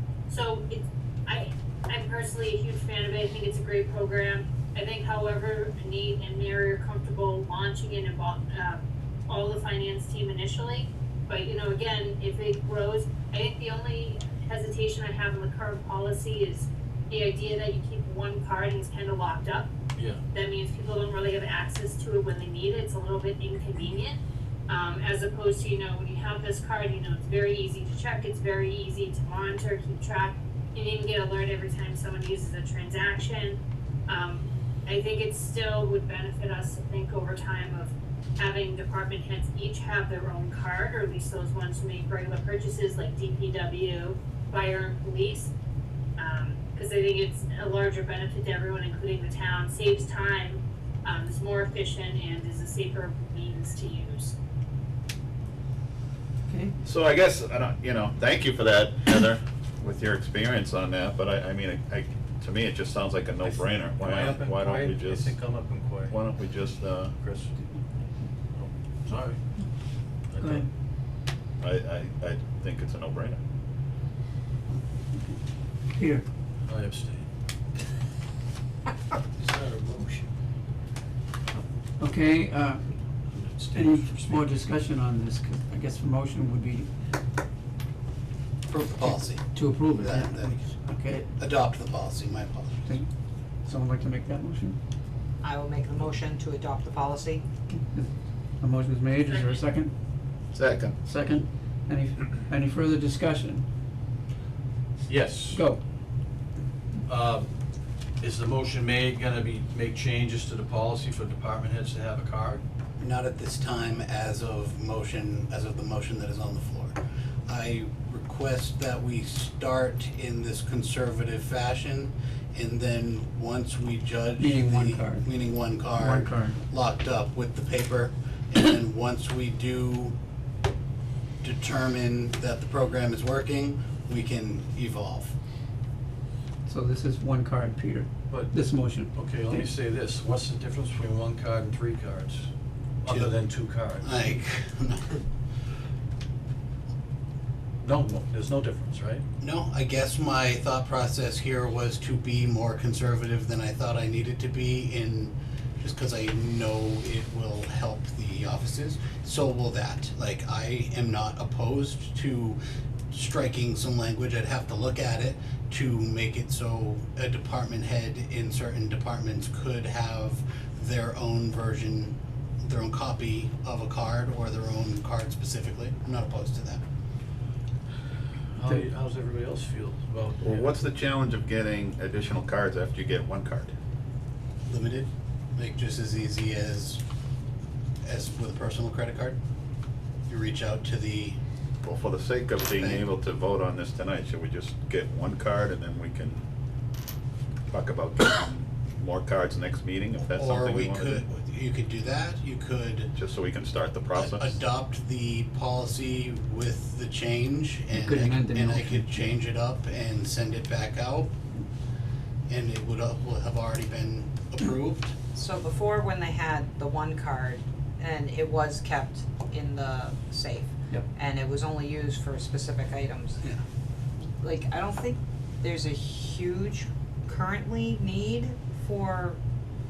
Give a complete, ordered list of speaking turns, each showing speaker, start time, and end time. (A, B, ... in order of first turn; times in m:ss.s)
0:00.3-0:19.7 A
0:20.0-0:20.2 B
0:20.3-0:45.5 A
0:46.2-0:54.4 A
0:56.8-1:05.4 C
1:03.4-1:06.1 B
1:06.1-1:07.1 C
1:07.2-1:07.5 B
1:08.5-1:09.4 B
1:10.3-1:10.6 B
1:10.4-1:10.6 D
1:11.6-1:13.4 C
1:15.9-1:16.2 D
1:16.6-1:17.2 B
1:19.4-1:20.3 B
1:22.0-1:22.8 D
1:23.3-1:24.6 B
1:23.7-1:26.9 D
1:28.7-1:30.7 E
1:28.9-1:31.3 D
1:31.4-1:32.8 E
1:33.6-1:34.8 D
1:35.4-1:37.4 F
1:37.7-1:38.1 D
1:38.6-1:39.9 D
1:39.2-1:39.6 A
1:40.5-1:41.0 C
1:41.0-1:43.6 D
1:45.0-1:45.6 B
1:45.5-1:45.8 D
1:47.0-1:47.5 B
1:48.2-1:52.6 B
1:53.0-1:57.0 E
1:57.5-2:10.1 E
2:04.4-2:05.2 D
2:06.0-2:06.6 D
2:11.4-2:15.3 E
2:16.6-2:19.7 D
2:19.1-2:22.5 B
2:23.0-2:24.3 B
2:23.1-2:23.3 E
2:24.0-2:25.2 E
2:27.8-2:29.2 B
2:29.4-2:42.6 E
2:43.1-2:56.8 E
2:58.6-3:00.7 B
3:00.4-3:03.7 C
3:04.7-3:07.0 E
3:08.0-3:09.4 E
3:10.3-3:11.4 E
3:11.8-3:16.4 C
3:12.8-3:13.0 E
3:17.7-3:21.2 C
3:20.2-3:23.1 E
3:23.1-3:24.6 C
3:24.1-3:31.4 E
3:27.9-3:29.1 D
3:32.5-3:35.1 E
3:35.3-3:43.4 F
3:44.4-3:49.4 F